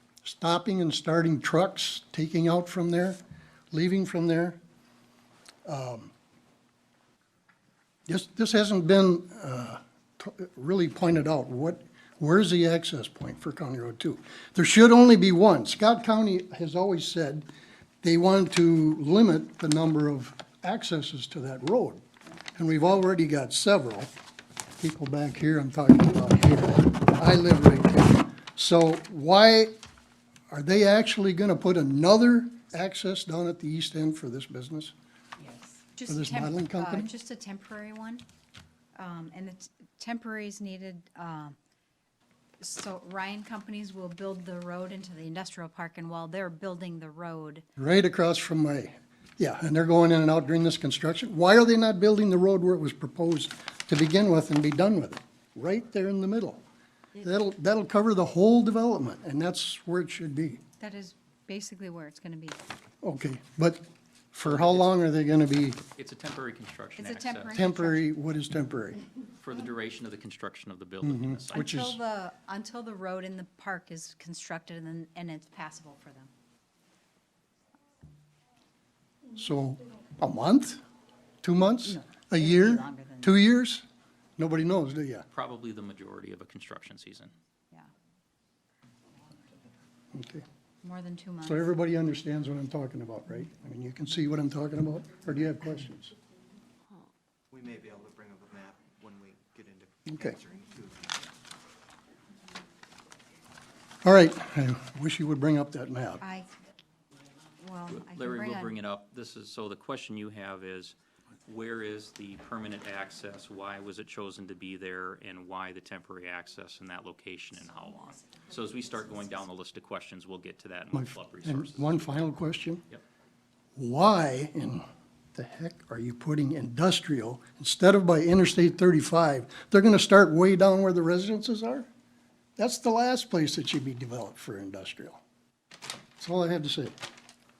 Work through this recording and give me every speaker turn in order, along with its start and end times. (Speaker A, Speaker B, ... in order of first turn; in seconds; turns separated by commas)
Speaker A: 0.2-3.2, Speaker A: 3.7-4.6, Speaker A: 5.7-6.1, Speaker A: 8.1-17.5, Speaker A: 18.0-22.0, Speaker A: 22.6-24.1, Speaker A: 24.8-29.8, Speaker A: 30.5-34.9, Speaker B: 35.4-38.2, Speaker A: 36.1-37.1, Speaker B: 39.0-41.6, Speaker B: 42.6-47.7, Speaker A: 47.8-56.6, Speaker A: 57.2-60.6, Speaker B: 60.8-62.6, Speaker A: 63.0-65.8, Speaker C: 64.4-64.9, Speaker C: 66.0-67.6, Speaker B: 67.0-68.1, Speaker A: 67.5-69.0, Speaker C: 69.4-71.8, Speaker A: 71.0-72.0, Speaker B: 71.5-76.3, Speaker A: 79.3-80.8, Speaker A: 81.4-83.8, Speaker B: 81.9-83.4, Speaker A: 84.4-85.3, Speaker C: 85.3-87.3, Speaker A: 90.1-90.5, Speaker B: 90.8-91.8, Speaker A: 91.4-96.1, Speaker D: 97.5-101.2, Speaker A: 100.1-100.3, Speaker A: 104.0-106.2, Speaker B: 106.2-106.5, Speaker B: 107.6-108.8, Speaker C: 107.9-122.1, Speaker A: 120.9-122.8, Speaker A: 123.8-131.9, Speaker A: 132.6-135.2, Speaker A: 136.2-137.0